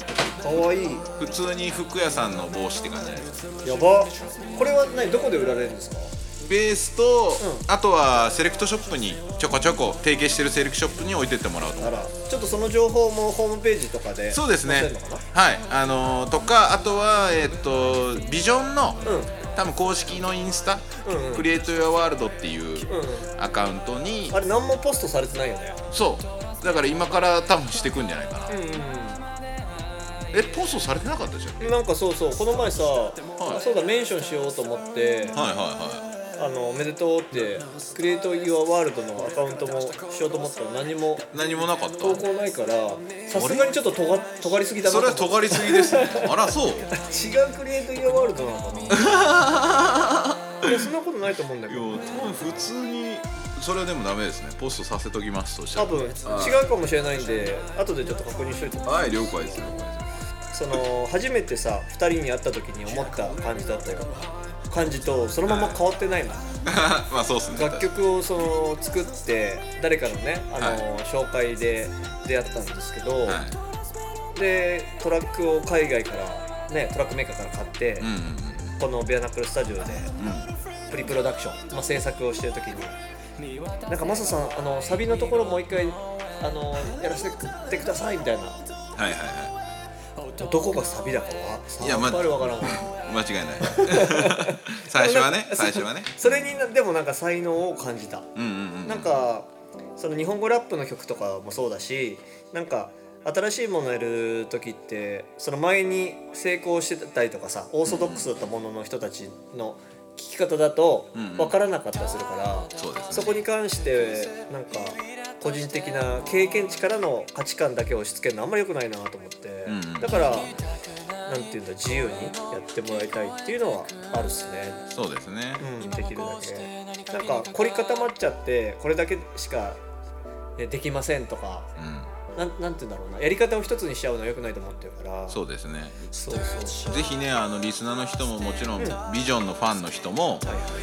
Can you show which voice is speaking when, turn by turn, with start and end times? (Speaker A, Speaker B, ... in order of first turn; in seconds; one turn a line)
Speaker A: 0.4-1.1
Speaker B: 1.2-3.4
Speaker A: 3.6-6.1
Speaker B: 6.4-12.0
Speaker A: 7.4-7.7
Speaker A: 11.8-15.2
Speaker B: 14.3-19.0
Speaker A: 19.0-19.3
Speaker B: 19.5-24.4
Speaker A: 21.0-21.5
Speaker A: 22.8-23.3
Speaker A: 24.3-25.8
Speaker B: 25.9-28.6
Speaker A: 28.5-29.3
Speaker B: 30.3-31.7
Speaker A: 31.6-35.4
Speaker B: 33.4-33.6
Speaker B: 35.3-36.1
Speaker A: 36.4-46.3
Speaker B: 41.3-42.2
Speaker B: 43.4-43.7
Speaker B: 44.8-46.9
Speaker A: 46.9-49.1
Speaker B: 48.9-50.9
Speaker A: 50.6-52.0
Speaker B: 51.7-56.6
Speaker A: 55.8-59.8
Speaker B: 58.9-60.1
Speaker A: 60.5-64.2
Speaker A: 64.7-66.5
Speaker B: 65.5-65.8
Speaker B: 66.6-67.9
Speaker A: 67.5-73.4
Speaker B: 70.6-70.8
Speaker B: 73.2-73.6
Speaker A: 74.3-78.1
Speaker B: 78.0-78.8
Speaker A: 78.8-80.1
Speaker B: 80.2-80.5
Speaker A: 80.9-83.0
Speaker A: 83.9-88.6
Speaker B: 89.0-89.5
Speaker A: 90.3-92.9
Speaker B: 91.8-96.1
Speaker A: 93.6-98.3
Speaker B: 98.4-99.1
Speaker A: 98.8-120.5
Speaker B: 107.8-108.3
Speaker B: 111.1-111.5
Speaker B: 112.8-113.3
Speaker B: 119.7-120.2
Speaker A: 121.3-124.8
Speaker B: 124.9-125.6
Speaker A: 125.6-129.8
Speaker A: 130.6-131.7
Speaker B: 131.8-132.1
Speaker A: 132.3-135.4
Speaker B: 135.3-136.1
Speaker A: 136.1-137.1
Speaker B: 136.8-140.5
Speaker A: 140.4-140.7